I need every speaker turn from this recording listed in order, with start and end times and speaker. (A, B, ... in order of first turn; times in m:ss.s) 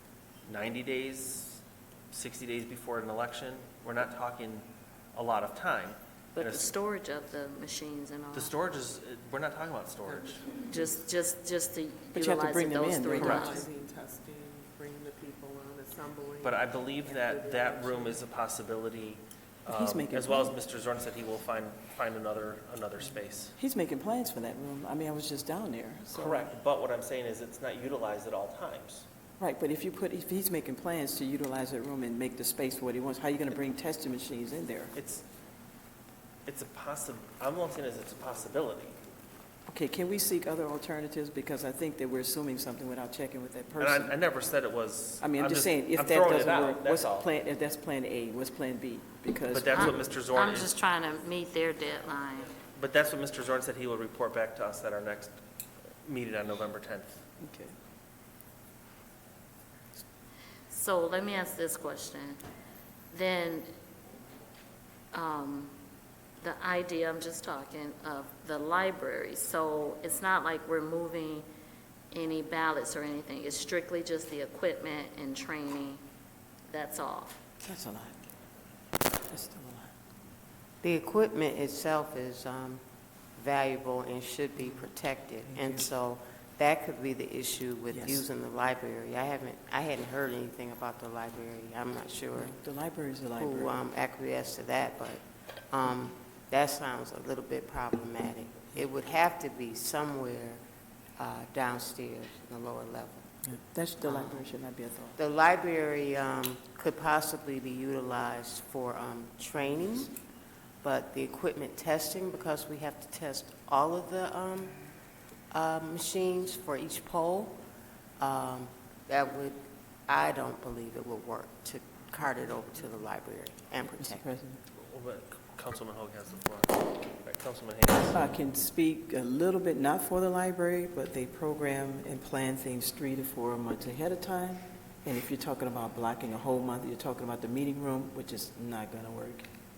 0:00.5-0:06.7 A
0:06.4-0:08.5 B
0:08.3-0:10.5 A
0:10.0-0:10.9 C
0:10.7-0:13.7 B
0:12.1-0:13.6 D
0:13.2-0:18.2 C
0:13.2-0:13.5 A
0:16.4-0:23.6 A
0:19.7-0:20.6 D
0:23.6-0:26.5 D
0:26.1-0:29.1 A
0:29.4-0:34.9 D
0:34.9-0:35.2 A
0:36.5-0:39.0 A
0:39.7-0:44.2 D
0:43.8-0:47.3 A
0:45.2-0:50.0 D
0:49.5-0:50.7 A
0:49.7-0:52.5 B
0:52.8-0:55.4 A
0:56.0-0:57.2 A
0:57.4-0:57.7 D
1:00.7-1:02.4 B
1:03.1-1:03.7 B
1:05.1-1:05.7 B
1:06.4-1:11.5 B
1:12.1-1:16.0 B
1:16.7-1:17.4 B
1:17.6-1:18.2 D
1:19.3-1:19.9 D
1:20.8-1:22.8 E
1:23.4-1:32.5 E
1:25.4-1:25.9 D
1:27.9-1:28.2 D
1:32.3-1:33.8 D
1:33.4-1:35.2 E
1:35.7-1:40.6 E
1:41.2-1:43.1 E
1:43.4-1:45.2 D
1:44.1-1:44.4 E
1:45.2-1:50.1 E
1:50.8-1:54.7 E
1:55.5-1:57.5 E
1:58.2-1:59.5 E
2:00.1-2:04.2 E
2:04.0-2:04.6 D
2:04.8-2:08.2 A
2:08.1-2:19.5 D